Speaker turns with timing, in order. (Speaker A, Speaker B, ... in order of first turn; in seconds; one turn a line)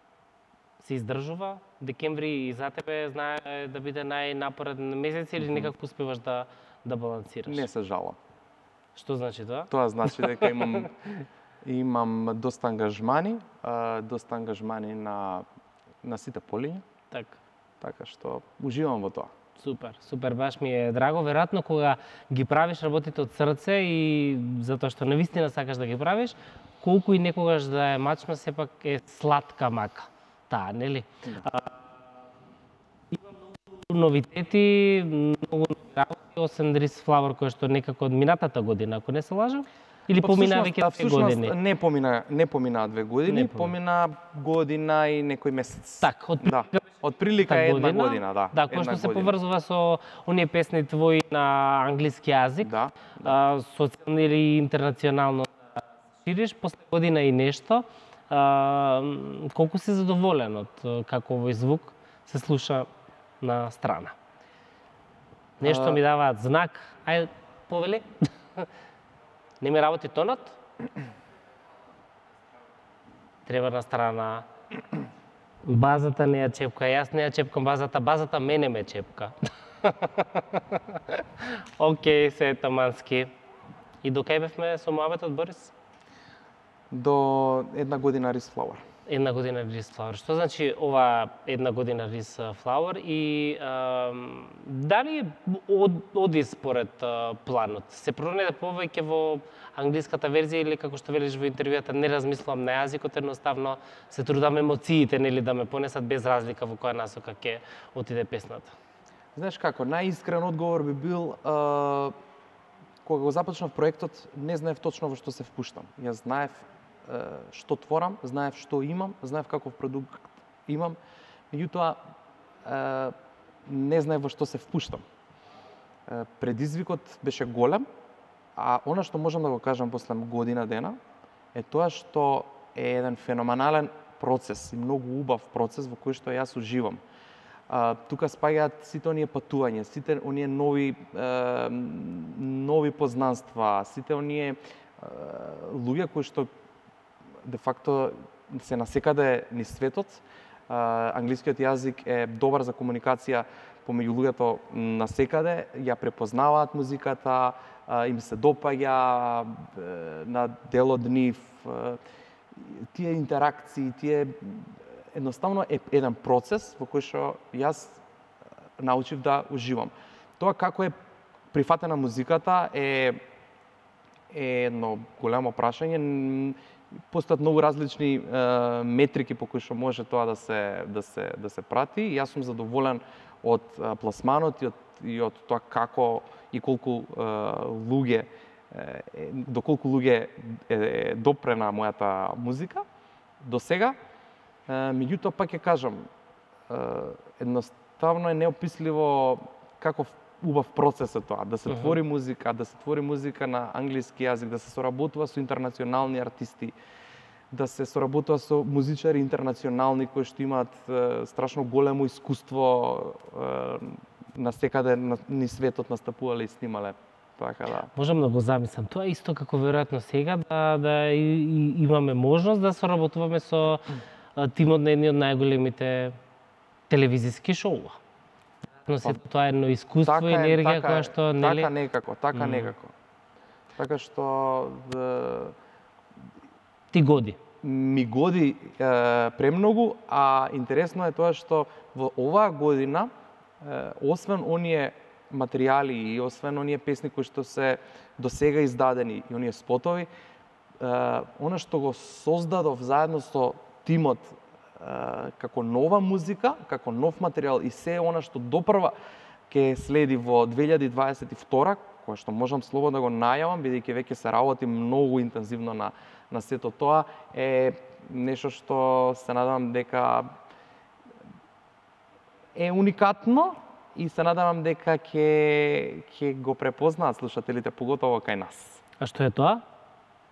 Speaker A: 0.8-7.7
Speaker B: 7.5-8.2
Speaker A: 8.9-10.8
Speaker B: 9.7-10.9
Speaker B: 11.6-15.4
Speaker B: 16.0-16.8
Speaker A: 17.1-17.4
Speaker B: 17.8-19.3
Speaker A: 19.6-31.7
Speaker A: 33.1-41.5
Speaker B: 40.2-49.3
Speaker A: 43.3-43.7
Speaker A: 46.0-46.8
Speaker A: 47.4-52.7
Speaker B: 52.6-53.3
Speaker A: 53.2-55.5
Speaker A: 56.2-62.9
Speaker A: 63.4-64.1
Speaker A: 65.6-68.7
Speaker B: 65.6-66.0
Speaker A: 69.6-70.6
Speaker A: 73.5-74.4
Speaker A: 75.6-83.3
Speaker A: 84.0-85.7
Speaker B: 86.9-88.8
Speaker A: 89.1-108.7
Speaker B: 109.3-112.1
Speaker B: 113.0-121.0
Speaker B: 121.5-122.0
Speaker B: 122.6-125.0
Speaker B: 126.0-127.8
Speaker B: 128.6-131.0
Speaker B: 131.5-137.0
Speaker B: 137.7-146.5
Speaker B: 147.4-162.0
Speaker B: 162.5-168.0
Speaker B: 168.8-170.9
Speaker B: 171.5-173.2
Speaker B: 174.3-176.6
Speaker B: 177.1-192.8
Speaker B: 193.4-193.9
Speaker B: 194.7-196.1
Speaker B: 196.7-206.7
Speaker A: 201.7-202.0
Speaker B: 207.5-217.9
Speaker A: 217.9-226.2
Speaker A: 226.9-228.0
Speaker A: 228.8-231.7
Speaker B: 230.0-232.9
Speaker A: 232.3-232.7
Speaker B: 233.8-235.5
Speaker A: 236.9-237.4
Speaker B: 237.6-250.1
Speaker B: 250.8-258.9
Speaker B: 259.5-270.4
Speaker B: 272.5-278.8
Speaker A: 279.0-279.6